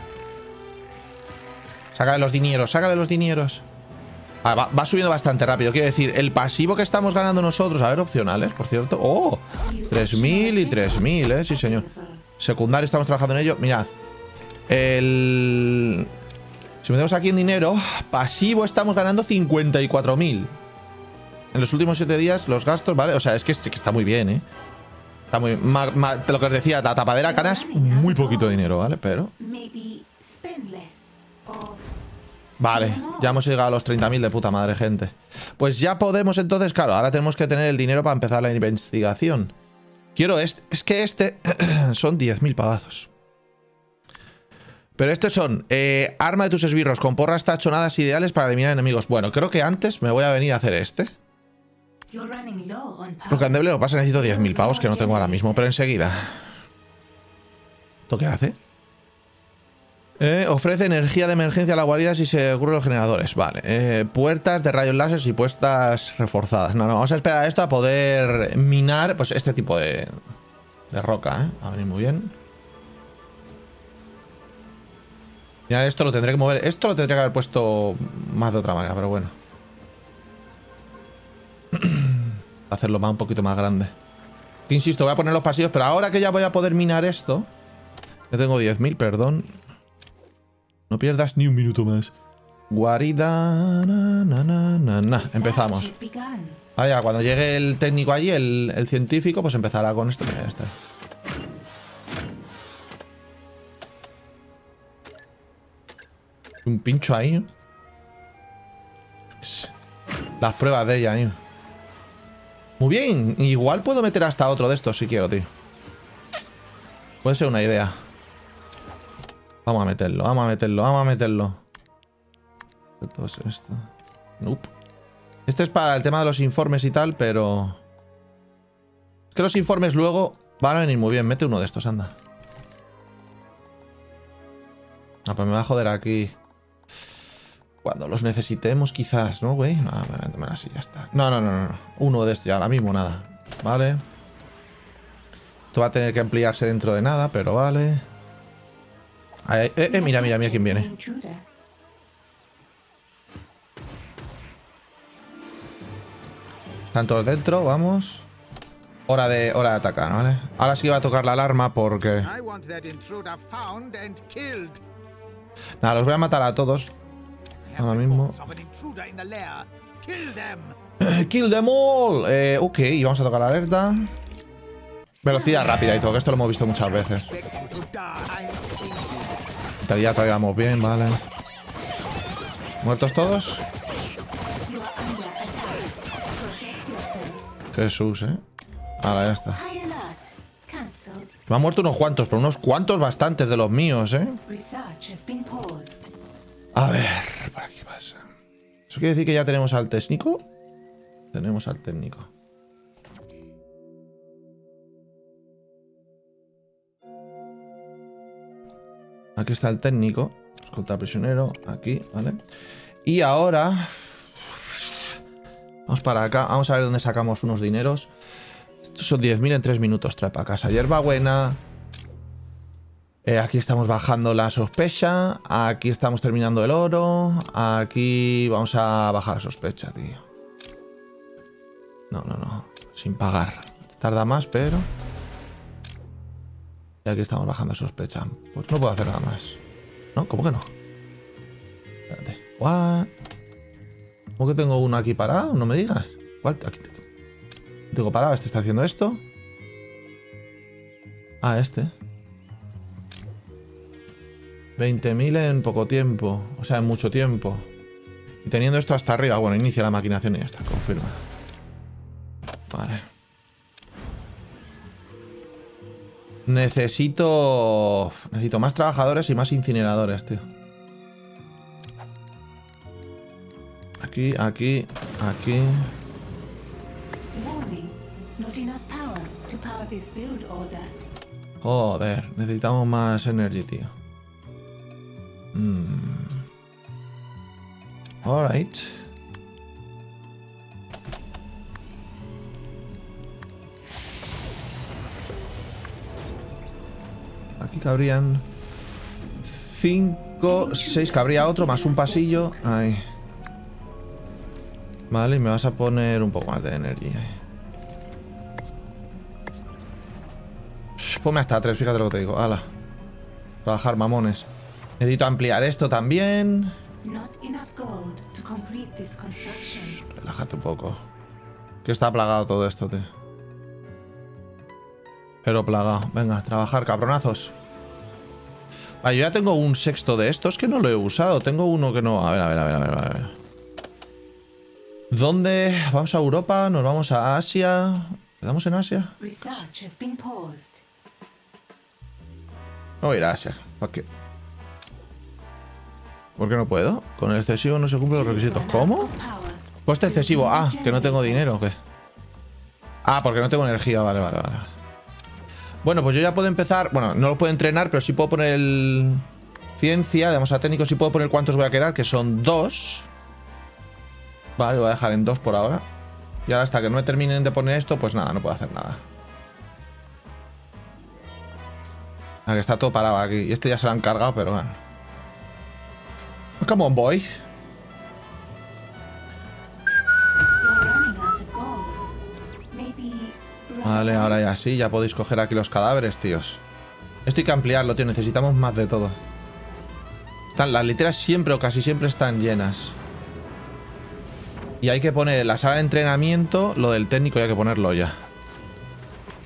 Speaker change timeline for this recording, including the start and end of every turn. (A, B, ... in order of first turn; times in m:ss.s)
0:01.9-0:03.6 A
0:04.4-0:11.9 A
0:09.6-0:12.2 B
0:12.4-0:13.9 A
0:14.7-0:16.1 A
0:16.8-0:20.5 A
0:21.5-0:24.4 A
0:25.3-0:29.3 A
0:27.2-0:28.7 B
0:29.4-0:31.8 B
0:32.6-0:33.4 B
0:32.6-0:39.5 A
0:40.2-0:43.1 A
0:45.0-0:51.1 A
0:52.1-0:55.7 B
0:53.3-0:56.4 A
0:58.1-0:58.6 A
1:00.2-1:10.2 A
1:10.9-1:12.3 A
1:15.7-1:19.3 A
1:21.7-1:23.9 A
1:24.7-1:27.5 A
1:28.3-1:29.6 A
1:30.9-1:32.1 A
1:32.7-1:35.9 A
1:35.2-1:36.6 B
1:36.8-1:40.7 A
1:46.6-1:47.5 A
1:49.4-1:49.7 A
1:50.4-1:51.4 A
1:52.8-1:55.5 A
1:57.2-1:57.9 A
1:59.6-2:01.6 A
2:03.0-2:03.9 A
2:04.4-2:04.7 A
2:05.4-2:07.8 A
2:09.3-2:12.2 A
2:15.2-2:16.3 A
2:17.8-2:24.0 A
2:25.7-2:28.0 A
2:29.4-2:30.9 A
2:29.8-2:31.4 B
2:36.9-2:38.3 A
2:39.1-2:42.3 A
2:42.2-2:44.8 C
2:45.8-2:46.9 A
2:47.7-2:50.8 C
2:47.8-2:48.4 A
2:51.0-2:54.1 A
2:55.2-2:57.3 A
2:55.3-2:56.2 B
2:56.8-2:59.7 C
2:59.8-3:01.2 A
3:02.8-3:03.6 A
3:04.6-3:07.4 B
3:07.7-3:08.4 A
3:09.0-3:09.6 A
3:09.5-3:11.4 B
3:11.5-3:14.4 A
3:14.5-3:16.1 B
3:16.7-3:18.2 A
3:18.9-3:20.4 A
3:21.3-3:22.3 A
3:29.4-3:32.4 A
3:33.0-3:35.1 A
3:35.9-3:38.1 A
3:38.8-3:41.6 A
3:43.2-3:50.2 A
3:52.1-3:54.9 A
3:57.0-3:59.6 A
4:00.2-4:00.7 A
4:02.1-4:03.1 A
4:04.4-4:07.0 A
4:07.9-4:09.2 A
4:11.4-4:11.9 A
4:14.8-4:17.7 A
4:18.4-4:21.2 A
4:22.7-4:23.1 A
4:26.5-4:30.4 A
4:34.0-4:35.9 A
4:37.3-4:41.0 B
4:41.6-4:43.9 A
4:45.5-4:46.4 A
4:48.2-4:49.0 A
4:57.6-4:58.4 A
4:59.5-5:03.0 A
5:00.4-5:02.8 B
5:05.1-5:07.4 A
5:11.0-5:12.6 A
5:13.6-5:14.5 A
5:15.0-5:16.7 A
5:17.0-5:20.0 B
5:19.9-5:21.0 A
5:21.8-5:23.1 A
5:25.4-5:27.5 A
5:29.0-5:33.3 A
5:35.1-5:39.6 A
5:39.2-5:40.8 B
5:43.0-5:44.0 A
5:46.4-5:49.1 A
5:48.1-5:51.6 B
5:49.9-5:51.8 A
5:53.0-5:54.7 A
5:55.8-5:59.2 A
5:59.8-6:03.1 A
6:04.6-6:05.8 A
6:06.4-6:09.0 A
6:12.4-6:14.8 A
6:16.6-6:17.4 A
6:20.6-6:22.0 B
6:22.7-6:24.4 B
6:23.8-6:26.6 A
6:27.2-6:29.2 A
6:30.5-6:33.0 A
6:34.8-6:38.2 A